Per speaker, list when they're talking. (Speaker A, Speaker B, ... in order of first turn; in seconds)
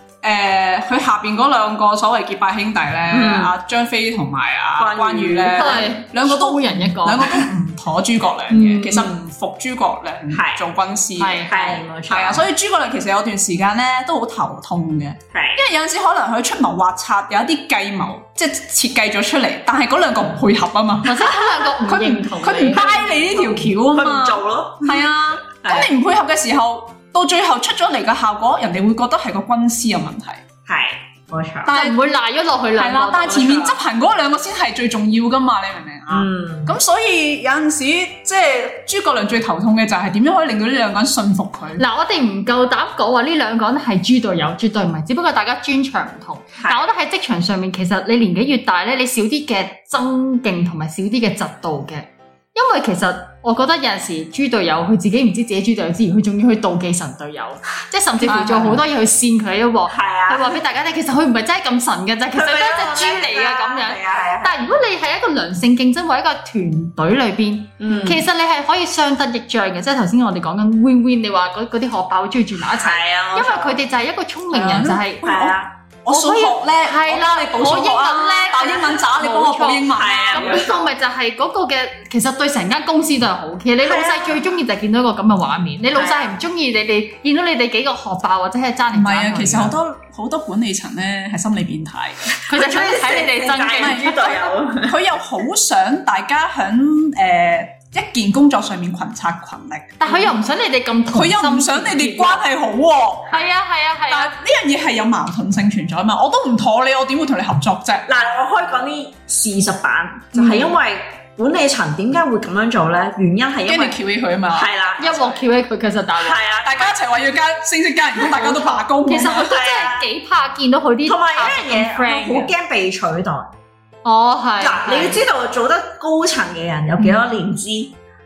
Speaker A: 0.2-30.4, 31.6-32.0, 32.8-41.8, 58.3-58.8, 74.5-75.5, 76.0-80.7, 88.9-92.3, 93.7-100.2, 101.1-103.4, 104.1-108.0, 113.6-114.8, 116.6-119.5
Speaker B: 3.1-3.5, 4.8-5.9, 10.3-10.6, 11.5-12.4, 15.3-15.6, 22.8-25.0, 25.6-25.9, 30.7-31.7, 33.3-33.6, 36.1-36.8, 46.6-46.8, 58.3-58.7, 59.9-60.6, 62.3-64.6, 67.8-68.2, 72.7-73.8, 75.2-75.7, 79.9-80.9, 83.8-84.4, 85.9-86.3, 92.3-95.0, 108.1-114.0, 114.5-115.4, 116.2-117.0, 119.2-120.1, 121.0-123.5, 124.6-127.9
Speaker C: 5.5-7.4, 8.5-9.1, 11.2-11.5, 21.0-23.5, 31.7-33.7, 41.8-75.4, 76.1-89.7, 92.5-94.3, 100.0-102.5, 103.3-104.3, 110.3-110.8, 115.0-116.4, 118.2-122.5, 124.0-125.2